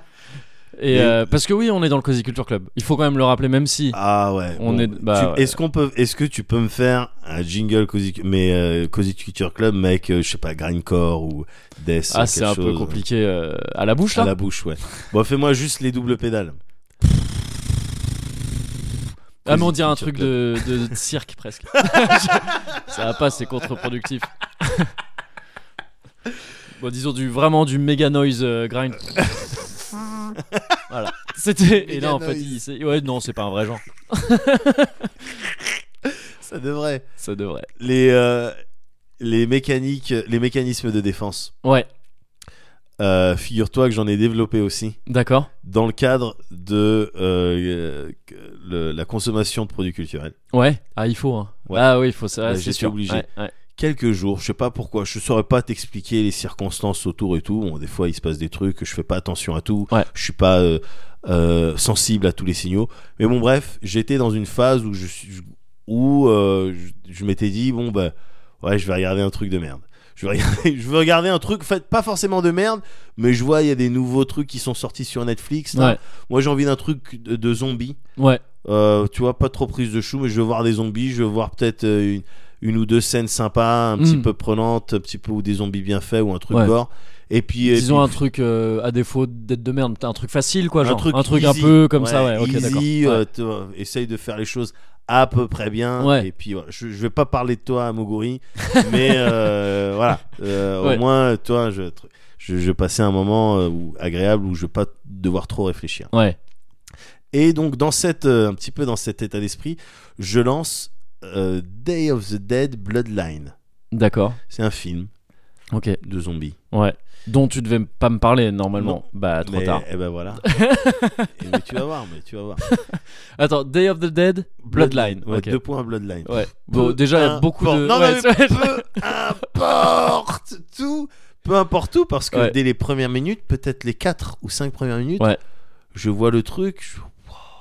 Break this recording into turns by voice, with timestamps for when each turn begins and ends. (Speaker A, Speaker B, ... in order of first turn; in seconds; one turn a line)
Speaker A: 0.8-4.0
Speaker B: 0.9-1.3
Speaker B: 3.9-13.0
Speaker A: 4.6-5.6
Speaker A: 12.1-14.3
Speaker B: 14.1-16.6
Speaker B: 19.4-20.9
Speaker A: 19.4-24.9
Speaker B: 21.9-22.3
Speaker A: 26.8-29.5
Speaker A: 30.9-35.1
Speaker B: 31.8-32.6
Speaker B: 36.2-37.1
Speaker A: 37.2-37.7
Speaker B: 37.8-38.5
Speaker B: 39.2-41.5
Speaker B: 43.0-45.0
Speaker A: 45.1-45.5
Speaker B: 45.6-50.4
Speaker A: 50.5-53.5
Speaker B: 52.4-78.0
Speaker A: 78.2-78.4
Speaker B: 78.6-88.2
Speaker A: 84.0-84.3
Speaker A: 87.6-93.2
Speaker B: 90.8-106.1
Speaker A: 96.0-96.3
Speaker A: 98.7-99.3
Speaker B: 107.3-113.5
Speaker A: 113.9-114.4
Speaker B: 114.5-115.1
Speaker A: 115.7-116.0
Speaker B: 116.0-116.6
Speaker A: 116.7-119.8
Speaker B: 118.8-120.5
Speaker A: 120.4-121.6
Speaker B: 121.4-122.7
Speaker A: 122.7-125.6
Speaker B: 124.6-135.3
Speaker A: 126.2-129.0
Speaker B: 135.9-137.4